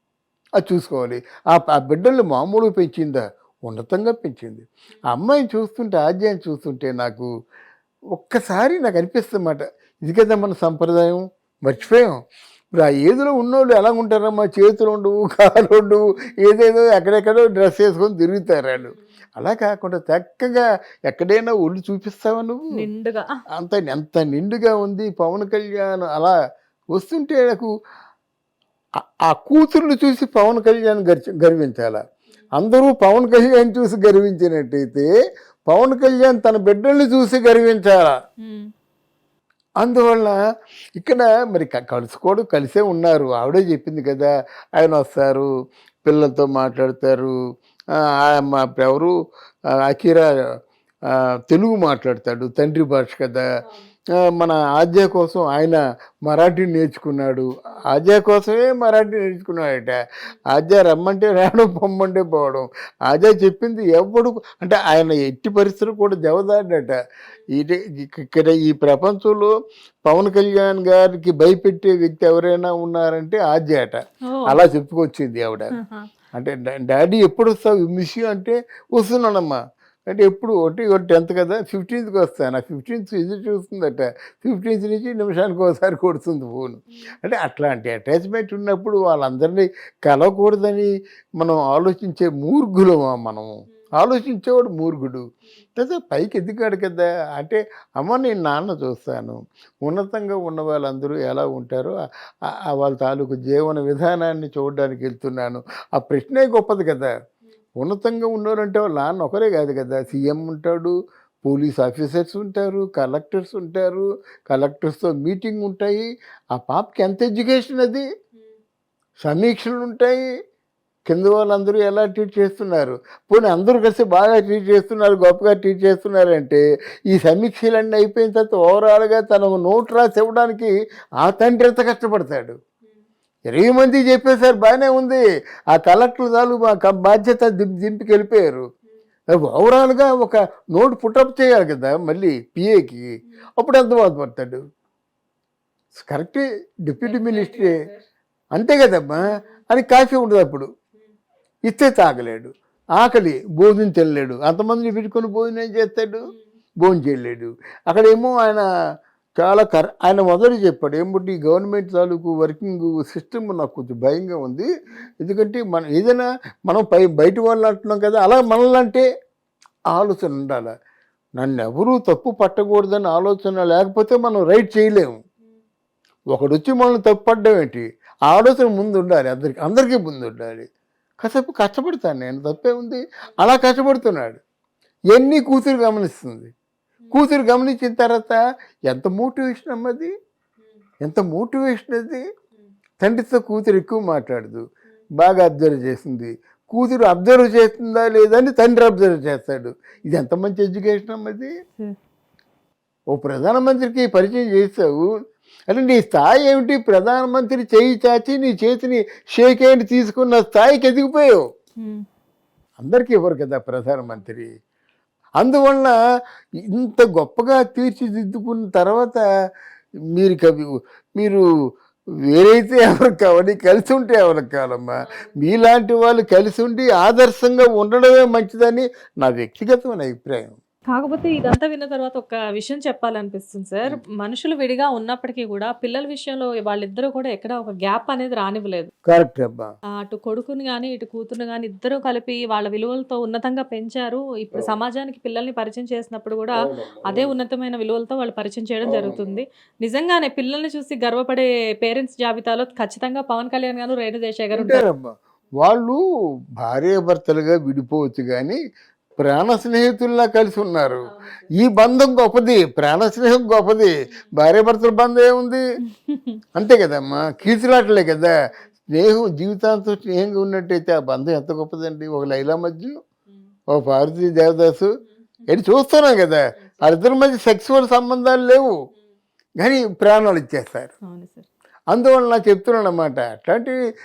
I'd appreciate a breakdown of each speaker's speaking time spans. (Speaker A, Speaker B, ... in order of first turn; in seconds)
Speaker A: 0.6-7.3, 8.1-12.1, 12.8-22.7, 23.6-26.3, 26.9-27.7, 29.3-32.0, 32.6-35.1, 35.7-38.1, 39.8-40.4, 41.0-45.5, 46.0-47.3, 48.2-49.1, 49.9-50.3, 51.1-53.4, 54.3-59.9, 60.5-66.9, 67.5-69.5, 70.0-75.7, 76.3-79.5, 80.1-90.9, 91.4-95.2, 95.8-101.9, 102.7-107.1, 107.8-118.0, 119.2-120.2, 121.1-130.7, 131.2-132.5, 133.5-138.6, 139.3-143.0, 143.6-144.6, 145.9-147.8, 148.5-150.7, 151.7-156.3, 156.8-158.6, 159.4-164.6, 165.2-169.0, 169.9-170.7, 171.4-175.2, 176.3-180.7, 181.2-184.4, 185.1-186.5, 187.1-188.4, 188.9-190.1, 191.0-192.2, 193.0-194.6, 195.2-201.5, 203.1-205.1, 205.7-211.4, 212.8-214.5, 215.4-215.9, 216.7-219.2, 220.2-221.4, 222.3-230.6, 239.1-239.7, 246.6-247.3, 248.8-249.4, 254.5-256.0, 256.6-258.6, 259.2-263.9, 264.4-265.6, 266.6-268.3, 268.9-272.9, 273.7-274.9, 275.5-278.7, 279.6-280.9, 281.9-283.7
Speaker B: 22.7-23.3, 38.4-38.7, 74.2-74.6, 75.8-76.0, 147.1-147.9, 230.9-238.9, 240.0-246.5, 247.1-254.8, 265.9-266.4, 281.0-281.5